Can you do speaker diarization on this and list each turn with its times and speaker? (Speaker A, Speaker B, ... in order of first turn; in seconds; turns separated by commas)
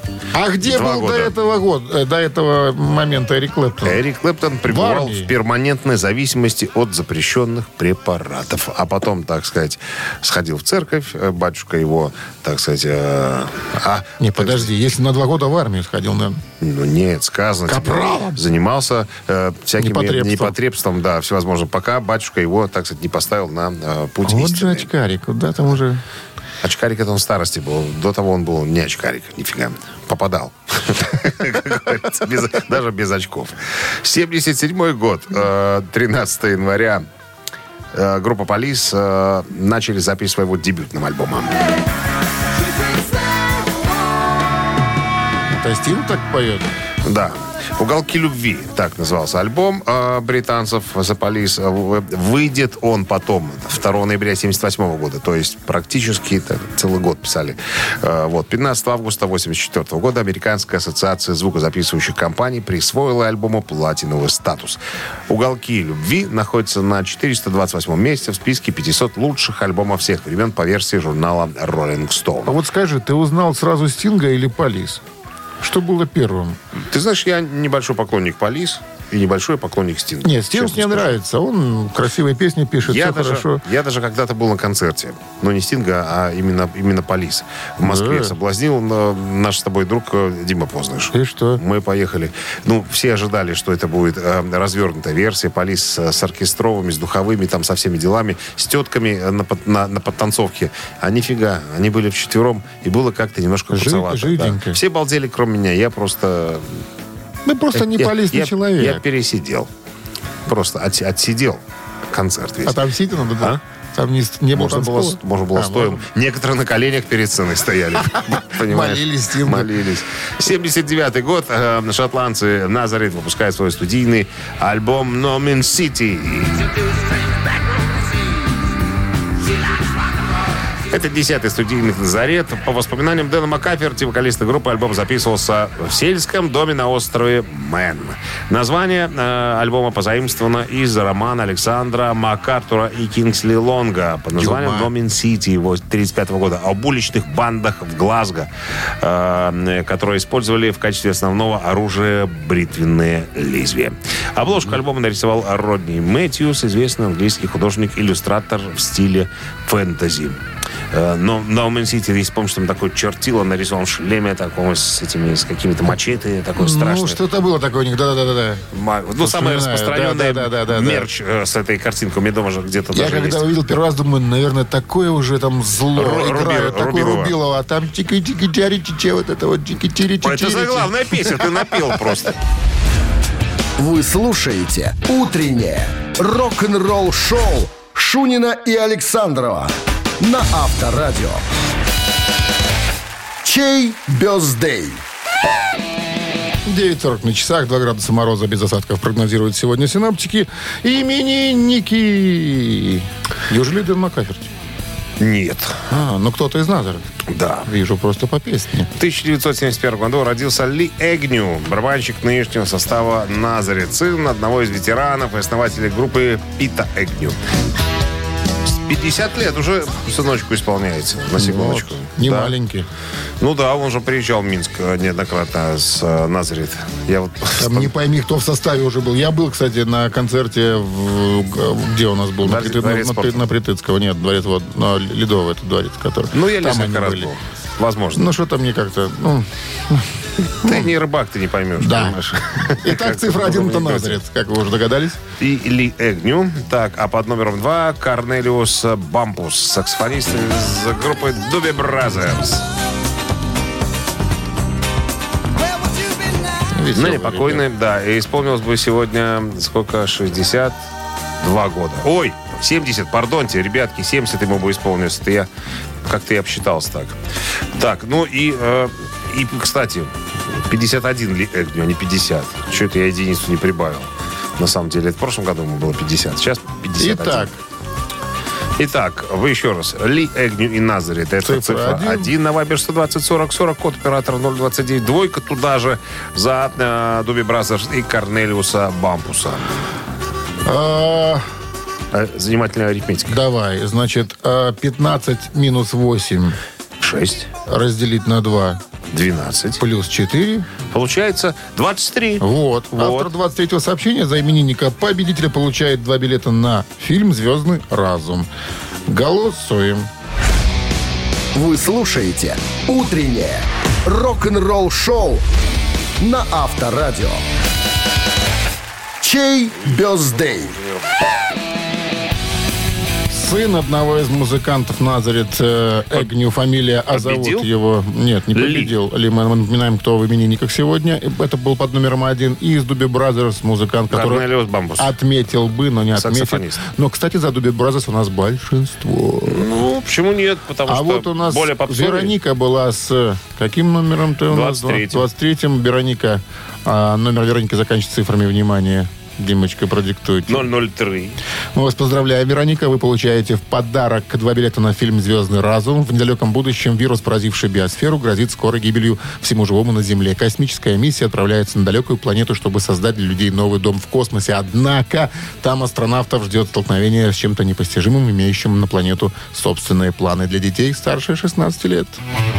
Speaker A: 0.3-4.0, Speaker B: 0.6-1.3, Speaker B: 3.8-14.7, Speaker A: 4.7-5.3, Speaker A: 14.2-16.4, Speaker B: 16.6-24.9, Speaker A: 17.7-18.4, Speaker A: 19.8-20.5, Speaker A: 24.2-26.0, Speaker B: 26.6-37.0, Speaker B: 37.9-41.6, Speaker A: 45.5-46.7, Speaker B: 47.0-72.6, Speaker A: 72.5-75.0, Speaker A: 75.6-76.6, Speaker B: 76.9-81.1, Speaker A: 80.2-83.6, Speaker B: 82.8-106.8, Speaker A: 87.8-88.3, Speaker A: 91.1-91.6, Speaker A: 103.7-104.8, Speaker A: 107.4-109.0, Speaker B: 107.7-109.7, Speaker B: 110.5-112.8, Speaker A: 112.6-116.0, Speaker B: 113.3-113.6, Speaker B: 114.5-126.9, Speaker A: 118.0-119.7, Speaker B: 130.9-148.5, Speaker A: 144.3-144.9, Speaker B: 149.0-160.4, Speaker B: 160.9-167.2, Speaker A: 166.6-168.6, Speaker B: 168.7-173.5, Speaker A: 169.2-171.1, Speaker A: 172.9-181.9, Speaker B: 175.9-177.3, Speaker B: 180.2-182.4, Speaker C: 183.8-191.4, Speaker C: 193.4-195.0, Speaker A: 196.6-204.5, Speaker B: 205.2-205.8, Speaker A: 205.9-207.1, Speaker B: 207.3-207.7, Speaker A: 207.6-208.9, Speaker B: 209.0-217.4, Speaker B: 218.7-222.5, Speaker A: 221.3-222.9, Speaker B: 223.4-227.9, Speaker A: 227.5-237.3, Speaker B: 232.4-233.4, Speaker B: 236.3-238.3, Speaker A: 238.1-240.9, Speaker B: 240.5-244.2, Speaker A: 241.8-245.2, Speaker B: 245.4-252.6, Speaker A: 256.7-257.6, Speaker B: 256.9-260.8, Speaker B: 261.4-265.5, Speaker B: 266.0-267.2, Speaker B: 267.7-277.5, Speaker A: 277.0-277.6, Speaker B: 278.8-289.8, Speaker A: 281.4-282.3, Speaker A: 290.6-291.4, Speaker B: 292.1-293.4, Speaker A: 293.3-296.6, Speaker B: 297.0-297.5, Speaker A: 297.7-298.8, Speaker B: 299.1-299.8, Speaker A: 299.8-300.7, Speaker B: 300.9-303.3, Speaker A: 302.4-308.5, Speaker A: 309.1-310.1, Speaker C: 311.5-315.4, Speaker C: 316.2-317.4, Speaker C: 319.2-320.7, Speaker B: 320.2-321.1, Speaker A: 323.3-334.4, Speaker B: 327.1-327.7, Speaker B: 328.5-328.9, Speaker B: 334.1-335.1, Speaker A: 335.0-339.7, Speaker B: 336.1-336.8, Speaker B: 339.4-342.4, Speaker A: 340.9-350.7, Speaker B: 344.5-345.2, Speaker B: 350.5-351.4, Speaker A: 351.7-372.2